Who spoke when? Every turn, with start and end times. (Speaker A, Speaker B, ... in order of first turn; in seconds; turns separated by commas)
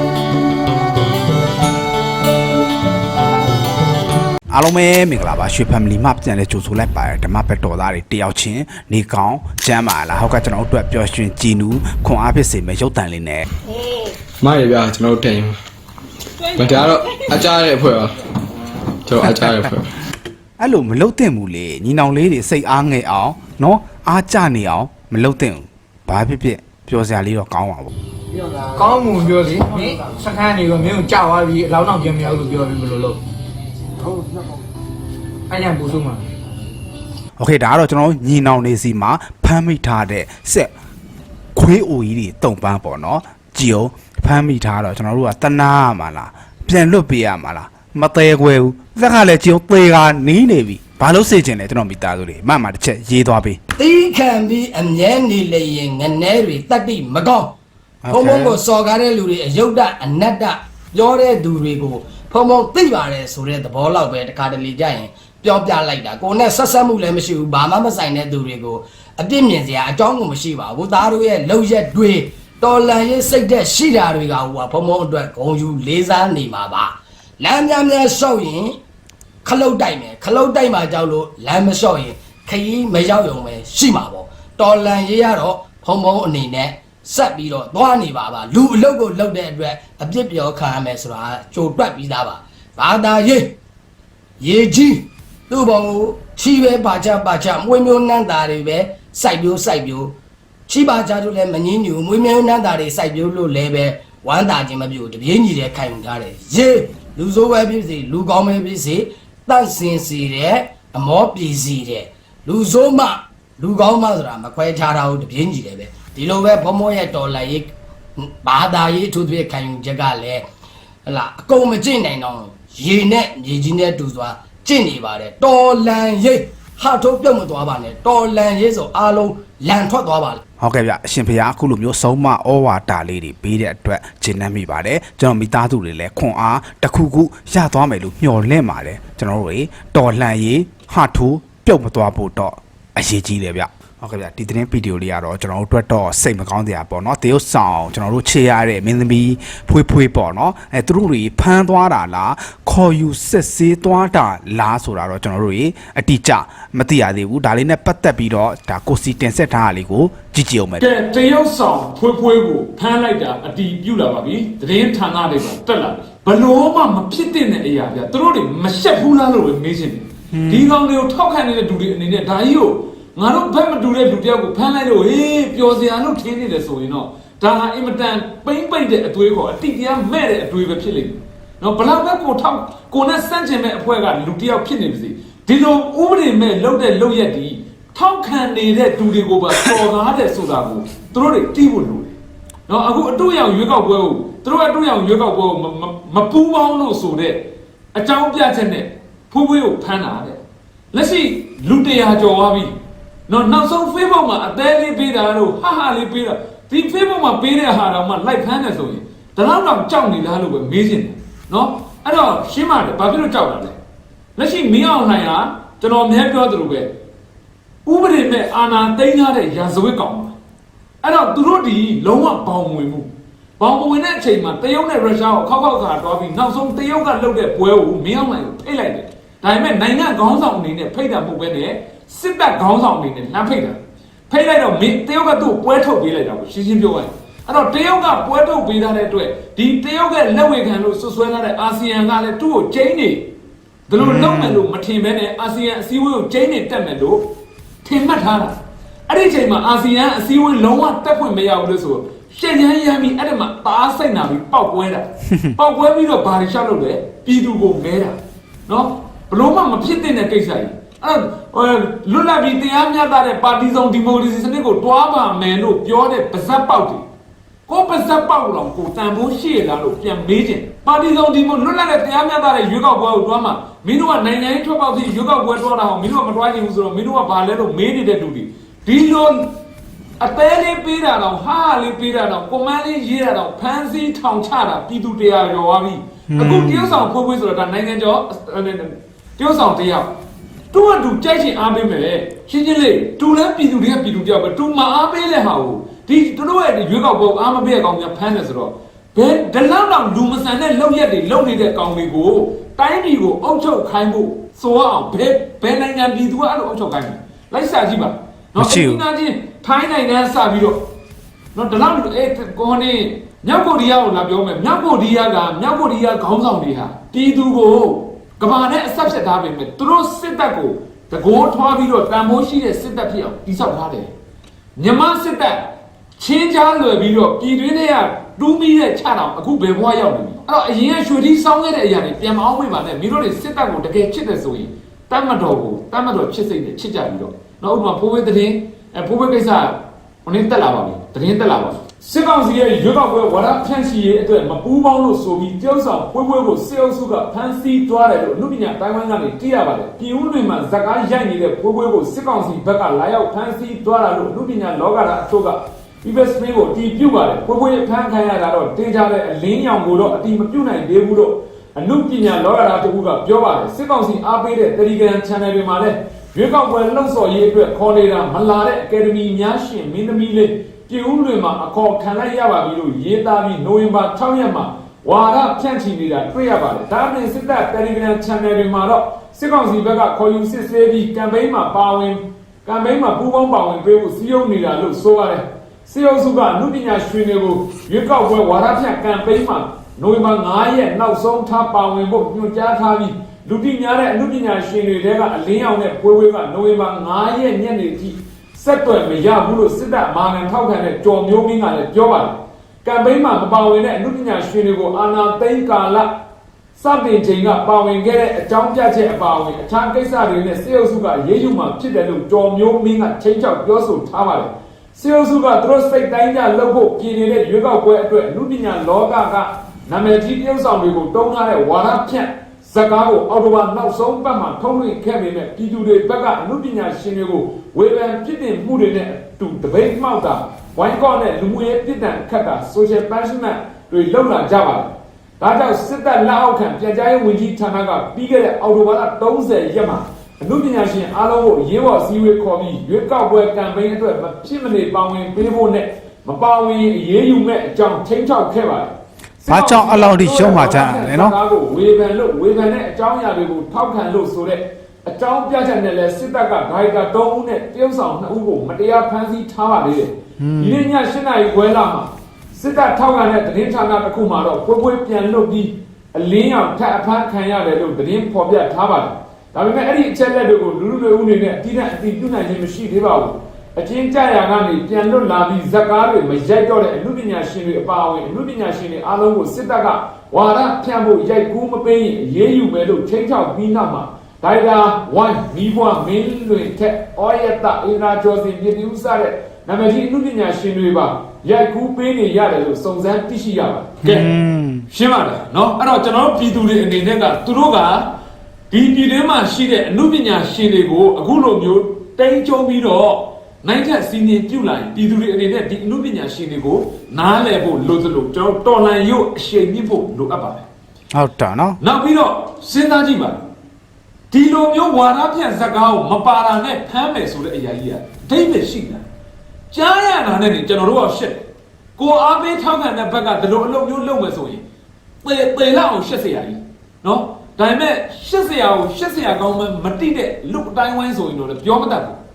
Speaker A: 4.5-13.4, Speaker B: 14.4-15.6, Speaker B: 16.6-18.2, Speaker B: 19.1-19.9, Speaker A: 20.6-27.9, Speaker C: 28.6-33.2, Speaker C: 35.5-36.3, Speaker A: 37.4-40.7, Speaker A: 41.5-53.6, Speaker D: 53.8-57.6, Speaker A: 58.0-58.6, Speaker D: 58.1-78.8, Speaker D: 79.4-93.6, Speaker D: 94.4-100.2, Speaker D: 100.7-120.4, Speaker D: 121.1-130.4, Speaker A: 130.6-160.9, Speaker E: 160.8-192.2, Speaker A: 170.3-170.7, Speaker E: 192.7-202.7, Speaker E: 203.3-213.8, Speaker E: 214.4-216.9, Speaker E: 217.9-220.3, Speaker E: 221.0-233.8, Speaker E: 234.3-243.3, Speaker E: 243.9-247.3, Speaker A: 244.0-244.6, Speaker E: 247.8-267.0, Speaker E: 267.7-279.5, Speaker E: 280.2-290.1, Speaker A: 286.3-286.9, Speaker E: 290.7-310.8, Speaker A: 308.6-309.0, Speaker E: 311.5-324.1, Speaker E: 324.8-406.1, Speaker E: 406.8-494.3, Speaker A: 449.5-451.4, Speaker A: 460.4-460.8, Speaker A: 494.0-494.9, Speaker E: 494.9-498.1, Speaker E: 498.7-510.7, Speaker A: 511.1-511.8, Speaker E: 511.8-513.4, Speaker E: 514.3-519.0, Speaker E: 519.7-524.6, Speaker E: 525.2-532.2